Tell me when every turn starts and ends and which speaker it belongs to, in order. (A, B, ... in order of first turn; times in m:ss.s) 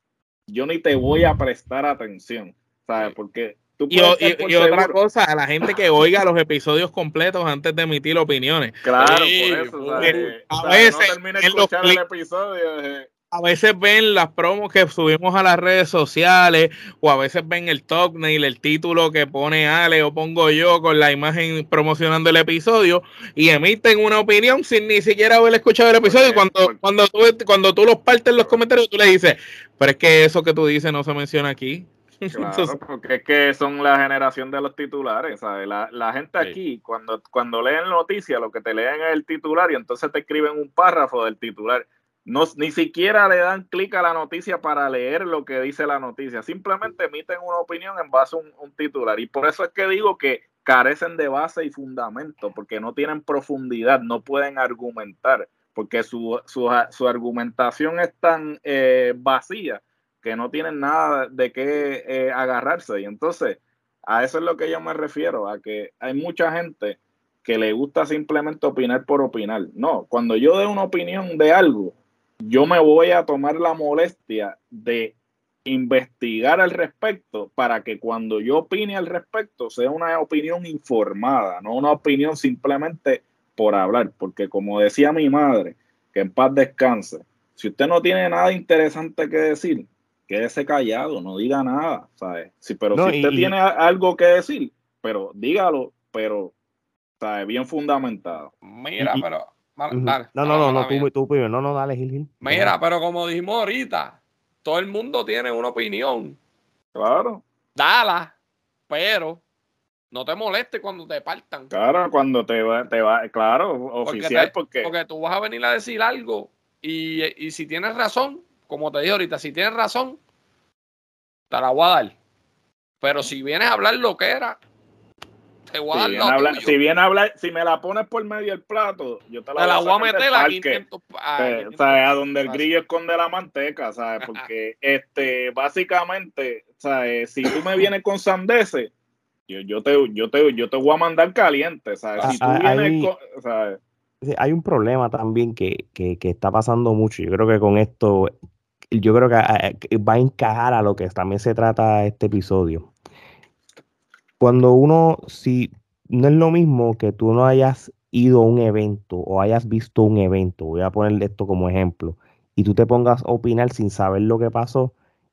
0:00.5-0:04.9 A
0:03.9-0:08.8 B
0:08.8-0:13.1 A
0:09.0-0:10.3 C
0:10.0-0:12.0 B
0:13.3-0:32.7 B
0:26.0-0:26.8 A
0:32.3-1:36.5 A
1:32.9-1:33.5 D
1:37.2-1:38.5 A
1:38.6-1:41.1 C
1:39.0-1:39.2 D
1:39.9-1:42.7 D
1:42.4-1:46.4 C
1:46.9-1:47.4 A
1:47.8-1:48.3 C
1:48.9-1:49.4 C
1:50.1-1:51.7 C
1:51.7-1:54.9 A
1:54.0-2:00.2 C
2:01.5-2:02.1 C
2:03.0-2:04.6 C
2:05.7-2:06.7 C
2:05.9-2:10.8 A
2:09.6-2:12.7 C
2:11.4-2:18.9 A
2:14.2-2:14.5 C
2:19.5-2:23.8 A
2:22.2-2:23.1 D
2:24.2-2:28.3 D
2:28.9-2:32.9 D
2:34.4-2:44.9 D